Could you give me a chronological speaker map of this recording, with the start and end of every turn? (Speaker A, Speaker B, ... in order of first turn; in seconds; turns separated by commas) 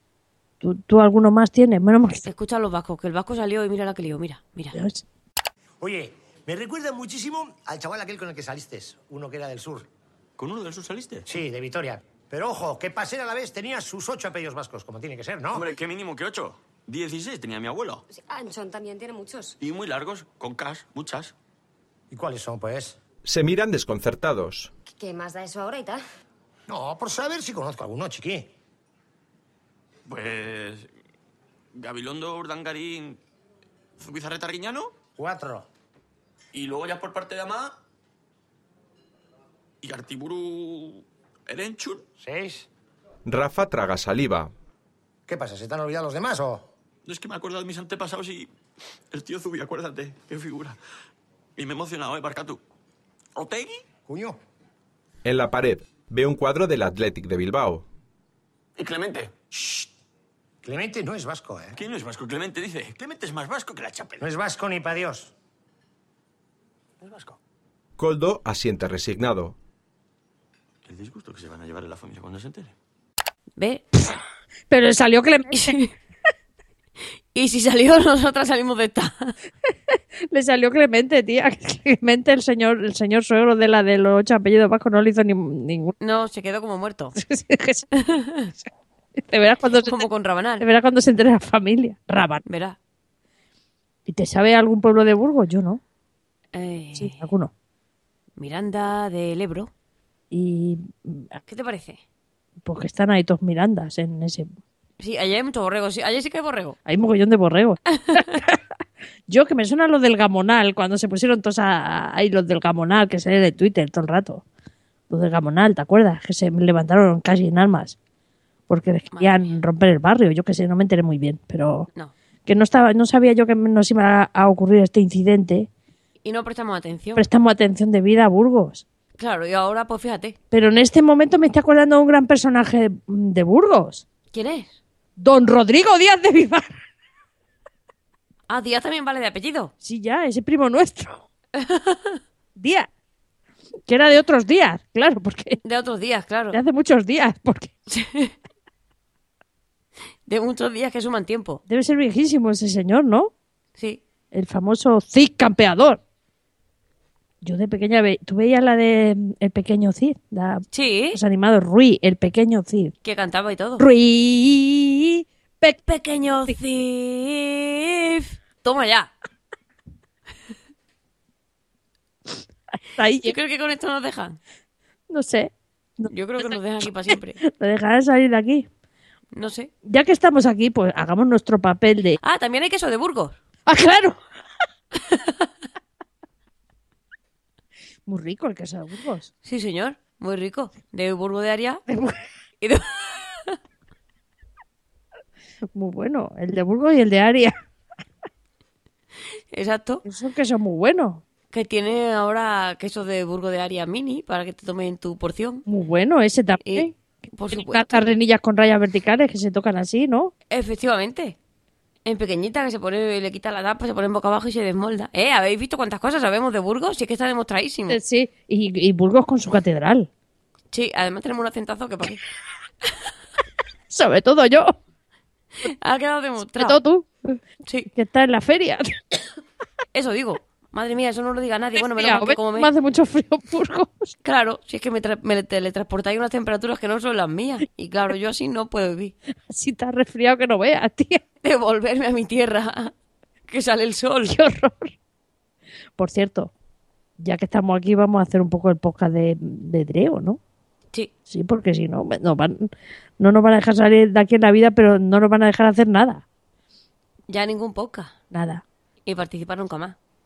Speaker A: 0.6-2.2, Speaker B: 2.2-4.8, Speaker A: 4.7-5.0, Speaker C: 5.8-9.9, Speaker D: 10.4-11.3, Speaker C: 11.2-15.7, Speaker D: 15.5-18.0, Speaker E: 18.1-19.6, Speaker D: 19.6-21.3, Speaker C: 22.1-23.0, Speaker F: 23.2-24.7, Speaker E: 24.9-26.0, Speaker C: 26.7-28.5, Speaker D: 30.1-30.9, Speaker D: 31.7-33.2, Speaker D: 34.0-34.9, Speaker C: 35.1-35.7, Speaker D: 36.5-37.8, Speaker D: 39.8-42.0, Speaker C: 42.2-42.7, Speaker F: 43.2-44.5, Speaker C: 45.3-46.7, Speaker D: 47.0-48.5, Speaker D: 49.1-50.8, Speaker D: 51.5-52.6, Speaker D: 53.3-53.8, Speaker C: 54.0-54.4, Speaker F: 55.2-57.8, Speaker D: 58.8-59.8, Speaker C: 60.6-61.8, Speaker D: 61.7-64.2, Speaker C: 64.2-65.3, Speaker D: 67.0-67.4, Speaker F: 68.0-69.5, Speaker D: 70.8-72.7, Speaker B: 73.6-73.8, Speaker A: 74.7-75.8, Speaker B: 75.5-75.9, Speaker B: 77.3-79.3, Speaker A: 79.9-85.9, Speaker B: 86.0-87.2, Speaker A: 87.2-87.9, Speaker B: 88.0-88.5, Speaker A: 89.2-90.0, Speaker B: 89.8-90.7, Speaker A: 90.6-92.4, Speaker B: 92.5-92.8, Speaker A: 94.1-95.8, Speaker B: 96.5-97.2, Speaker A: 97.0-97.5, Speaker B: 98.4-99.7, Speaker A: 100.3-101.3, Speaker B: 101.5-102.0, Speaker A: 102.6-104.5, Speaker B: 105.0-106.8, Speaker A: 106.8-108.6, Speaker B: 107.9-108.3, Speaker A: 109.3-114.4, Speaker A: 115.1-118.0, Speaker A: 118.7-121.9, Speaker B: 119.1-119.4, Speaker A: 122.5-125.7, Speaker B: 126.2-127.2, Speaker A: 127.2-128.8, Speaker B: 129.2-130.4, Speaker A: 130.5-134.0, Speaker B: 134.3-134.8, Speaker A: 135.2-136.7, Speaker B: 138.5-139.7, Speaker A: 139.8-141.2, Speaker B: 141.5-142.2, Speaker A: 142.6-142.9, Speaker A: 143.9-145.6, Speaker B: 145.6-146.6, Speaker A: 146.5-147.7, Speaker B: 147.9-148.3, Speaker B: 150.3-151.6, Speaker A: 151.7-153.3, Speaker A: 154.3-156.0, Speaker A: 157.4-162.9, Speaker B: 160.7-161.2, Speaker B: 163.0-163.8, Speaker A: 163.8-165.9, Speaker B: 165.9-169.1, Speaker A: 172.9-173.3, Speaker B: 173.2-174.4, Speaker A: 175.1-176.6, Speaker B: 176.1-177.4, Speaker A: 177.4-178.7, Speaker B: 179.3-179.7, Speaker A: 179.8-182.2, Speaker B: 182.2-183.3, Speaker A: 183.7-184.2, Speaker A: 188.1-189.3, Speaker B: 189.4-191.8, Speaker A: 191.9-192.2, Speaker B: 192.6-193.6, Speaker A: 195.7-197.6, Speaker B: 199.5-200.0, Speaker A: 200.0-201.2, Speaker B: 201.5-205.6, Speaker A: 205.7-206.9, Speaker B: 206.6-208.0, Speaker A: 207.5-210.3, Speaker B: 210.5-211.3, Speaker B: 212.0-218.0, Speaker A: 217.9-220.1, Speaker B: 220.7-222.2, Speaker A: 223.9-224.8, Speaker B: 225.6-226.8, Speaker A: 226.6-227.4, Speaker A: 227.9-229.0, Speaker B: 229.9-232.7, Speaker A: 231.8-234.2, Speaker B: 234.2-239.1, Speaker A: 239.5-241.2, Speaker B: 241.4-242.9, Speaker B: 243.5-244.3, Speaker A: 244.3-244.9, Speaker A: 246.0-246.5, Speaker A: 247.2-250.4, Speaker A: 251.3-256.2, Speaker B: 257.3-258.1, Speaker A: 258.3-258.6, Speaker B: 259.1-259.9